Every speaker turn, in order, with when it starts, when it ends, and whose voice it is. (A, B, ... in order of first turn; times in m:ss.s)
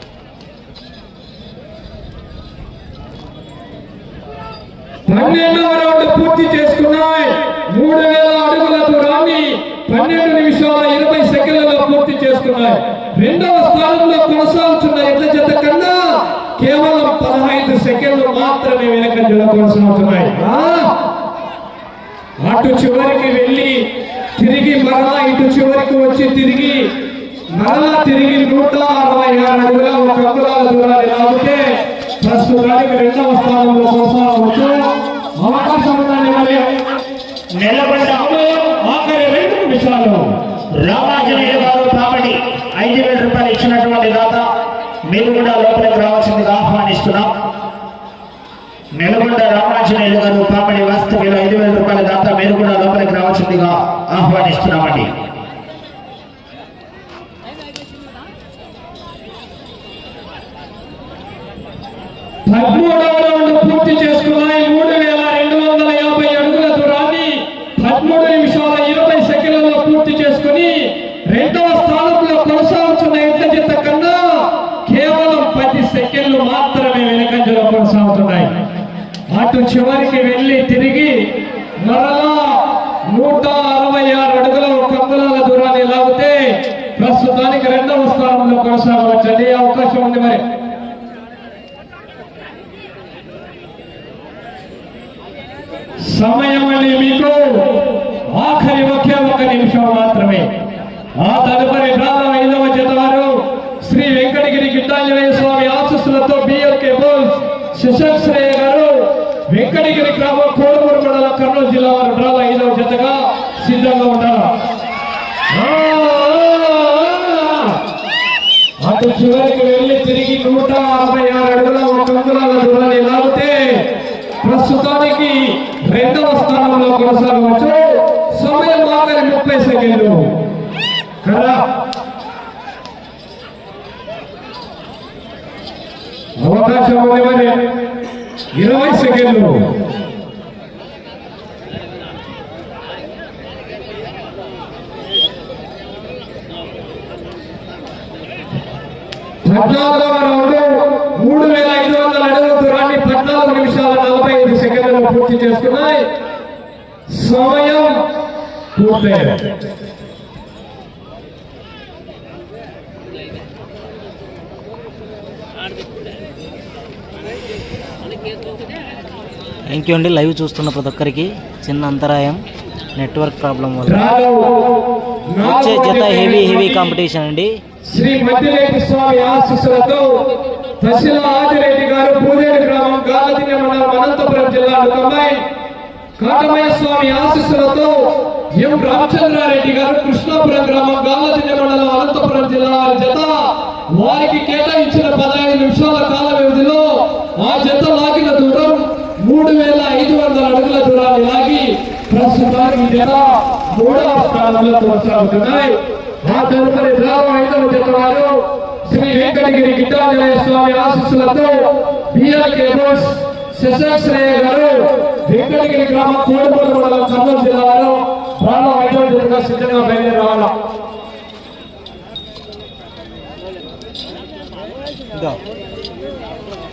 0:05.1-0:21.0 A
0:22.4-0:26.9 A
0:27.5-0:31.6 A
0:32.2-0:34.8 A
0:35.4-0:36.7 A
0:37.6-0:38.3 B
0:38.1-0:40.3 A
0:40.8-0:44.4 B
0:45.1-0:47.3 B
0:49.0-0:55.1 B
1:02.4-1:18.5 A
1:19.3-1:21.3 A
1:21.8-1:30.4 A
1:36.0-1:40.5 A
1:41.1-1:54.5 A
1:55.5-1:57.8 A
1:58.8-2:03.9 A
2:04.4-2:10.4 A
2:11.2-2:11.6 A
2:16.4-2:17.8 A
2:18.5-2:19.7 A
2:29.4-2:36.0 A
2:37.1-2:38.0 A
2:38.7-2:39.4 A
2:49.7-2:52.4 C
2:52.9-2:54.0 C
2:53.8-2:56.9 A
2:55.4-2:57.6 C
2:57.8-3:00.2 A
3:00.8-3:05.4 A
3:06.2-3:40.5 A